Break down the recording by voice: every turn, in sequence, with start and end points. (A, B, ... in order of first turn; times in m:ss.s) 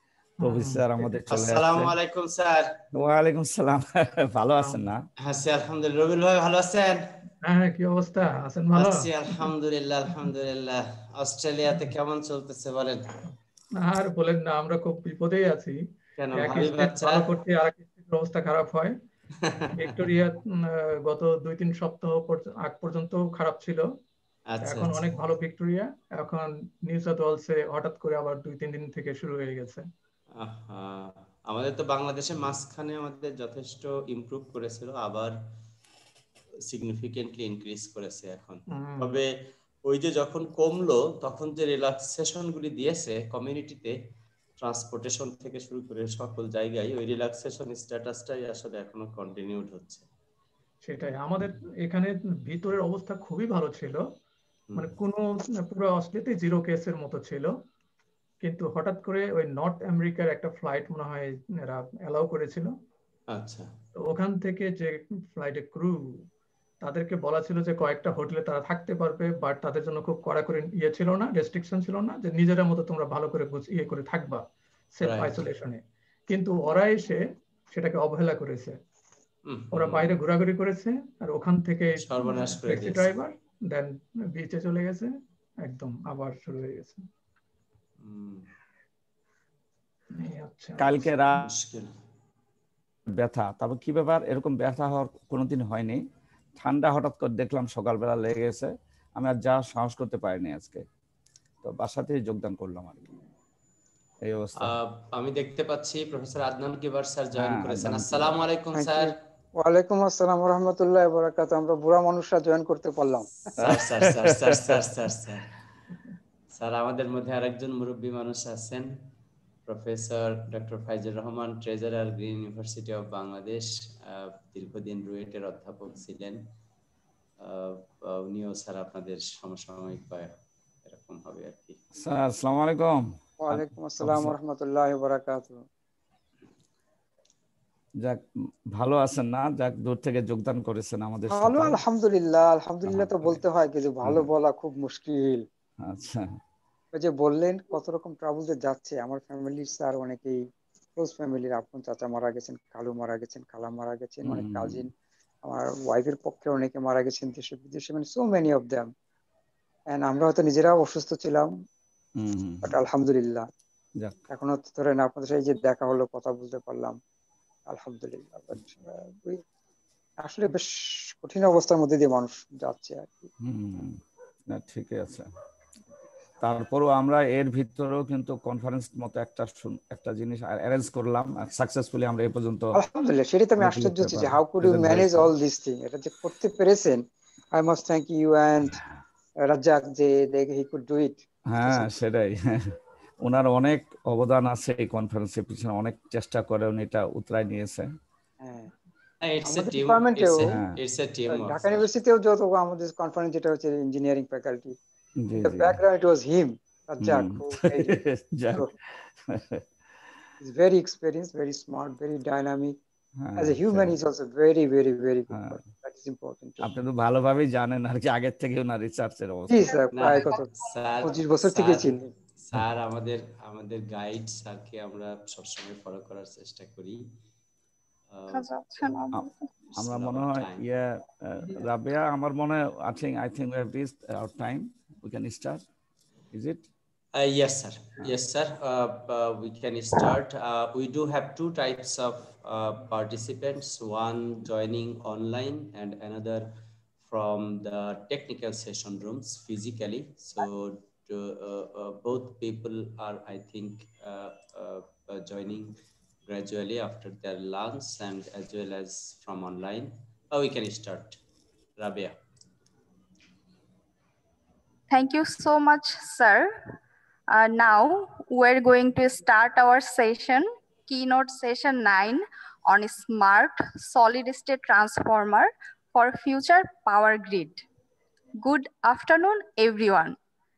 0:00.4-0:01.1 A
0:00.4-0:02.0 B
0:01.3-0:02.8 C
0:02.9-0:05.1 B
0:04.6-0:04.9 A
0:05.2-0:07.2 C
0:07.4-0:09.5 A
0:08.7-0:13.2 C
0:13.7-0:19.0 A
0:16.2-0:17.3 C
0:19.4-0:19.8 C
0:19.7-0:24.0 A
0:24.5-0:25.1 C
0:24.6-0:29.9 A
0:30.4-0:35.4 C
0:36.7-0:39.3 C
0:38.7-0:39.2 A
0:39.8-0:44.0 C
0:44.6-0:50.1 C
0:50.8-0:54.1 A
0:54.8-0:57.6 A
0:58.4-1:02.8 A
1:03.3-1:03.7 C
1:04.0-1:06.3 A
1:06.8-1:18.8 A
1:15.0-1:15.4 C
1:19.5-1:20.2 C
1:19.7-1:27.0 A
1:22.0-1:23.1 C
1:28.0-1:28.5 C
1:30.1-1:31.4 A
1:30.8-1:31.5 B
1:31.4-1:32.0 C
1:33.1-1:36.0 B
1:36.6-1:40.8 B
1:41.6-1:43.2 B
1:44.2-1:44.8 B
1:44.6-1:49.2 C
1:47.4-1:48.4 B
1:48.7-1:53.3 D
1:53.5-1:55.5 C
1:53.6-1:54.8 B
1:56.5-1:59.1 C
1:59.7-2:06.4 C
2:07.4-2:10.3 C
2:10.9-2:11.8 C
2:12.0-2:14.4 B
2:13.4-2:15.6 D
2:18.0-2:21.8 B
2:21.3-2:25.5 D
2:22.9-2:23.4 B
2:24.0-2:24.3 B
2:25.8-2:26.4 B
2:26.9-2:30.4 D
2:31.0-2:34.9 D
2:34.2-2:34.9 B
2:35.4-2:38.9 D
2:39.9-2:41.5 D
2:42.2-2:42.7 B
2:42.6-2:43.5 D
2:44.3-2:47.0 D
2:47.7-2:49.4 D
2:50.2-2:53.3 D
2:53.4-2:55.3 B
2:56.4-3:02.8 B
3:02.7-3:08.8 D
3:03.6-3:05.3 B
3:09.4-3:11.9 D
3:11.5-3:17.9 B
3:18.4-3:18.7 D
3:19.2-3:21.8 C
3:19.4-3:20.6 D
3:20.5-3:20.8 B
3:21.3-3:24.8 D
3:25.2-3:25.8 B
3:25.4-3:28.0 D
3:27.0-3:29.6 B
3:30.4-3:32.8 D
3:33.2-3:34.0 B
3:33.4-3:36.7 D
3:35.3-3:35.6 B
3:36.6-3:39.6 B
3:39.5-3:40.5 D
3:39.7-3:40.5 E
3:39.9-3:47.1 C
3:41.0-3:42.1 D
3:48.1-3:49.1 C
3:48.3-3:49.5 E
3:49.2-3:55.6 B
3:49.7-3:50.6 C
3:56.3-3:56.7 B
3:57.1-4:21.2 C
4:21.8-4:22.2 C
4:24.9-4:26.5 E
4:27.3-4:37.6 E
4:38.4-4:40.2 E